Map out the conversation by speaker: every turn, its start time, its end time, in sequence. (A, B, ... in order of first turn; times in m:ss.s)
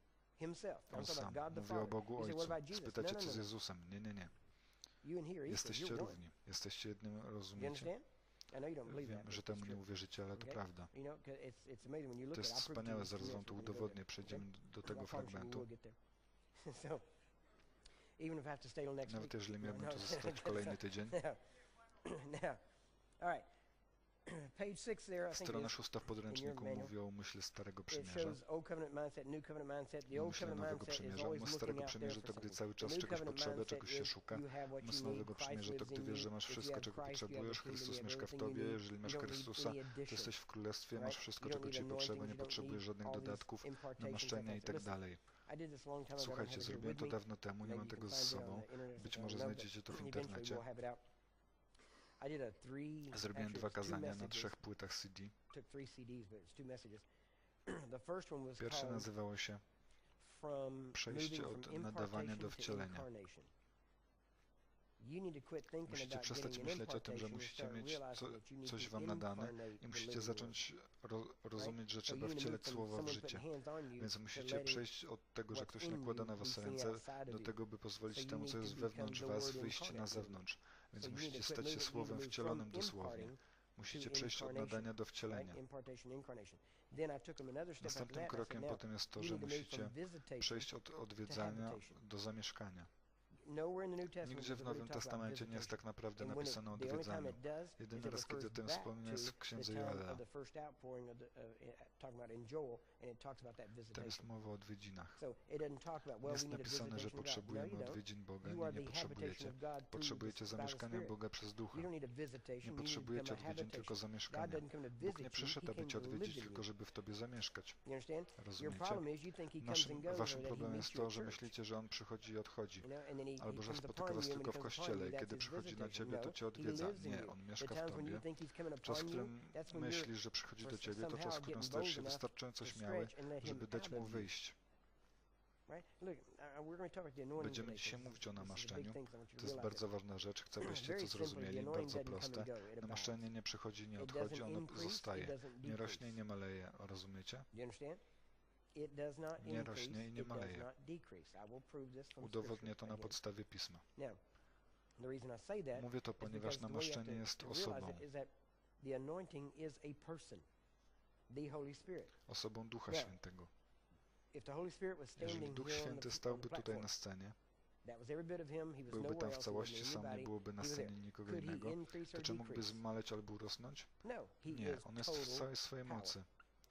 0:00.4-0:03.4 A
0:00.9-0:04.3 B
0:05.0-0:06.2 A
0:05.5-0:07.9 B
0:07.6-0:09.8 A
0:08.8-0:10.9 B
0:10.3-0:16.0 A
0:12.3-0:15.7 B
0:16.6-0:17.0 A
0:18.2-0:21.4 A
0:19.0-0:21.2 B
0:22.0-0:22.6 A
0:23.2-0:23.4 A
0:24.2-0:26.9 A
0:25.3-0:28.4 B
0:27.9-0:40.3 A
0:30.1-0:45.2 B
0:41.0-0:44.9 A
0:45.4-0:51.0 A
0:46.2-0:50.6 B
0:52.2-0:54.6 A
0:53.1-0:55.3 B
0:55.5-0:57.0 A
0:57.6-0:59.1 A
0:58.6-0:59.6 B
1:00.2-1:03.5 A
1:00.9-1:03.1 B
1:05.0-1:10.6 A
1:05.9-1:13.4 B
1:11.6-1:14.8 A
1:14.0-1:25.6 B
1:15.5-1:17.5 A
1:18.1-1:20.4 A
1:21.0-1:30.7 A
1:27.8-1:32.9 B
1:31.2-1:32.0 A
1:33.4-1:44.3 A
1:34.2-1:40.2 B
1:43.9-1:45.2 B
1:45.2-1:51.2 A
1:46.2-1:51.9 B
1:51.7-1:56.6 A
1:52.6-1:57.8 B
1:57.8-2:01.5 A
1:58.4-2:08.3 B
2:02.8-2:14.3 A
2:08.8-2:14.6 B
2:15.7-2:19.9 A
2:17.4-2:27.5 B
2:20.6-2:23.2 A
2:24.0-2:26.2 A
2:27.5-2:28.0 A
2:28.8-2:33.2 A
2:29.4-2:30.7 B
2:32.2-2:33.8 B
2:35.0-2:40.4 A
2:35.7-2:38.1 B
2:41.3-2:42.1 A
2:42.3-2:43.5 B
2:42.9-2:43.2 A
2:44.3-2:46.9 A
2:45.2-2:47.4 B
2:47.8-2:52.8 A
2:48.9-2:53.9 B
2:54.0-2:56.2 A
2:54.4-2:56.3 B